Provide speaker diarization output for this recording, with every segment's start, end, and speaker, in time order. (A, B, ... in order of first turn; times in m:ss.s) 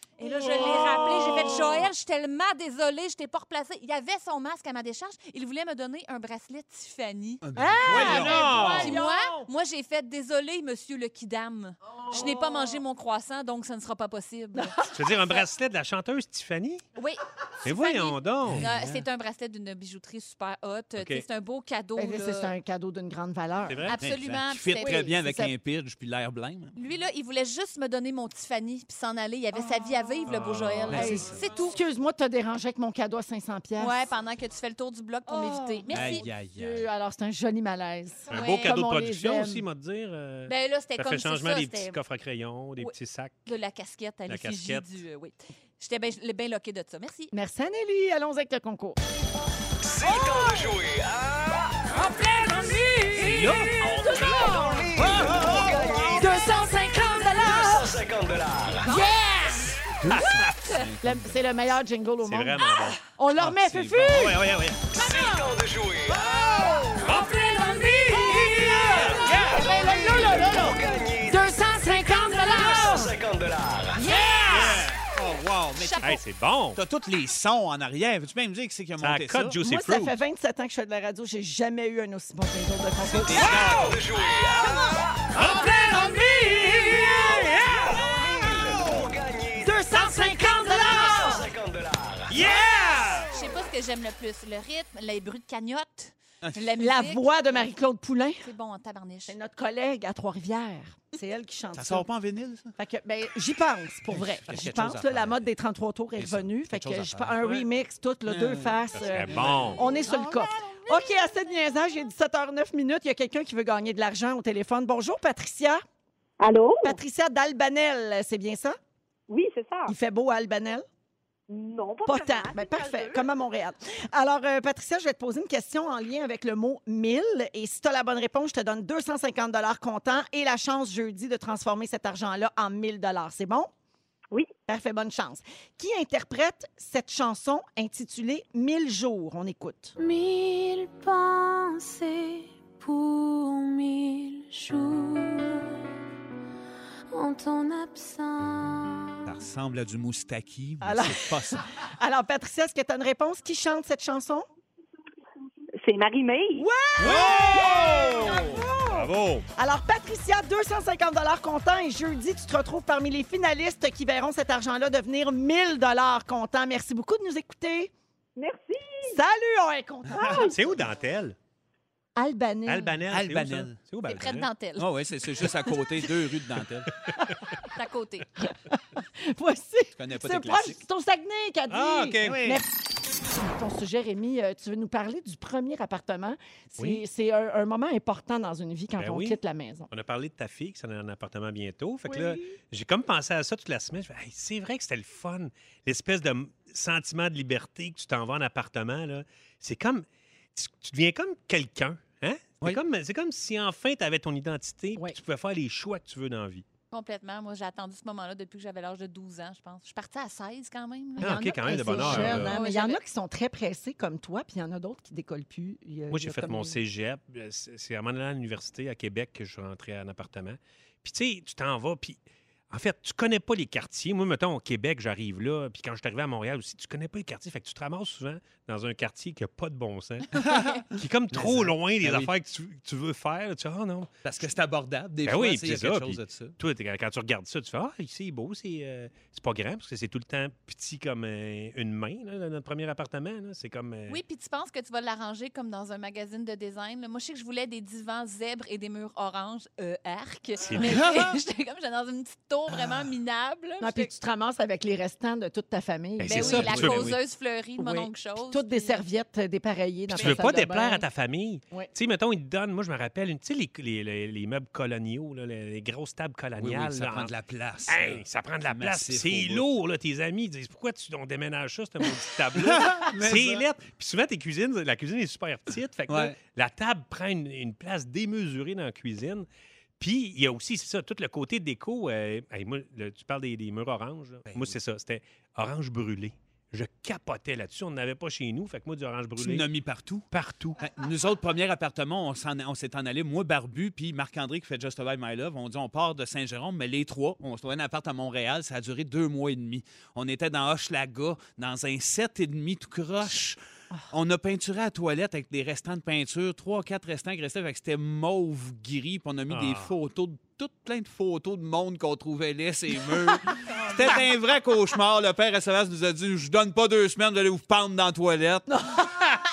0:00.2-0:07.4 A
0:00.3-0:01.6 B
0:00.6-0:01.7 C
0:07.4-0:08.7 D
0:07.6-0:09.5 B
0:07.8-0:09.0 C
0:07.9-0:15.4 A
0:12.1-0:12.8 B
0:14.8-0:16.8 C
0:17.0-0:22.5 A
0:17.6-0:18.7 C
0:18.5-0:18.9 D
0:21.0-0:21.2 C
0:22.0-0:23.9 B
0:23.6-0:24.0 C
0:23.8-0:25.0 A
0:24.0-0:26.8 D
0:24.8-0:25.5 B
0:26.8-0:31.8 A
0:29.6-0:30.0 B
0:30.2-0:31.3 C
0:30.9-0:34.0 B
0:30.9-0:31.2 D
0:33.8-0:36.3 A
0:35.3-0:39.6 B
0:35.9-0:36.9 D
0:38.3-0:38.8 A
0:38.3-0:43.5 C
0:40.5-0:42.0 A
0:42.8-0:47.3 A
0:44.3-0:44.9 C
0:47.3-0:49.0 B
0:50.0-0:51.6 E
0:51.9-0:58.0 B
0:53.2-0:53.7 D
0:53.2-0:53.6 C
0:53.8-0:56.1 E
0:54.0-0:54.8 A
0:57.6-0:58.8 E
0:58.8-1:00.2 B
0:59.9-1:01.7 D
1:00.1-1:00.4 C
1:01.0-1:05.5 B
1:02.2-1:03.0 C
1:03.4-1:04.8 D
1:05.0-1:06.5 E
1:07.1-1:13.2 B
1:08.3-1:09.4 D
1:09.7-1:11.4 E
1:12.4-1:12.8 A
1:12.8-1:14.0 E
1:14.0-1:14.8 B
1:14.0-1:14.8 A
1:14.5-1:16.2 D
1:15.8-1:16.2 A
1:16.0-1:16.8 C
1:16.8-1:19.6 D
1:19.0-1:20.2 C
1:19.6-1:23.8 B
1:23.1-1:23.9 D
1:23.8-1:25.0 E
1:25.3-1:28.2 C
1:25.4-1:26.5 B
1:27.8-1:29.7 E
1:29.6-1:31.5 B
1:30.0-1:31.4 A
1:31.1-1:32.3 E
1:32.3-1:33.3 C
1:33.3-1:37.7 A
1:36.8-1:38.4 B
1:38.4-1:39.3 A
1:39.3-1:42.0 B
1:41.7-1:42.7 D
1:42.8-1:55.8 B
1:44.1-1:45.4 D
1:46.2-1:47.6 D
1:48.2-1:50.3 D
1:49.0-1:49.9 C
1:56.4-1:57.0 F
1:56.8-1:58.8 B
1:59.3-1:59.9 F
1:59.9-2:00.8 B
2:01.5-2:03.3 F
2:02.0-2:13.7 B
2:14.7-2:19.9 B
2:20.0-2:25.8 G
2:27.1-2:29.1 G
2:29.2-2:31.6 D
2:30.8-2:34.4 B
2:35.8-2:36.7 F
2:36.6-2:47.9 B
2:37.0-2:39.4 C
2:37.0-2:38.4 D
2:48.4-2:49.2 F
2:49.1-2:50.5 B
2:50.1-2:50.4 D
2:50.3-2:51.4 C
2:52.2-2:53.0 B
2:52.6-2:54.5 C
2:53.1-2:53.8 D
2:54.1-2:54.9 A
2:54.8-2:56.9 D
2:57.7-2:58.3 A
2:58.4-3:02.7 B
3:00.0-3:00.8 D
3:01.7-3:02.4 C
3:02.2-3:02.6 D
3:03.2-3:09.9 B
3:06.8-3:07.0 C
3:09.0-3:09.4 C
3:09.9-3:26.6 C
3:12.1-3:12.4 B
3:26.9-3:33.0 A
3:31.2-3:36.8 B
3:31.2-3:32.6 C
3:36.1-3:54.1 C
3:50.4-3:52.3 D
3:54.2-3:56.6 D
3:55.2-4:04.2 C
4:04.1-4:14.1 A
4:10.6-4:11.2 C
4:13.8-4:17.1 B
4:16.2-4:17.2 C
4:16.2-4:19.0 A
4:17.8-4:21.0 B
4:20.1-4:27.3 C
4:20.1-4:20.4 A
4:26.6-4:29.6 D
4:27.8-4:39.4 C
4:32.6-4:33.6 D
4:36.1-4:36.4 D
4:40.0-4:49.7 C
4:44.5-4:44.7 D
4:49.4-4:50.2 D
4:50.3-4:50.8 C
4:50.8-5:03.6 D
5:04.1-5:18.7 D
5:09.5-5:09.9 C
5:18.7-5:19.4 B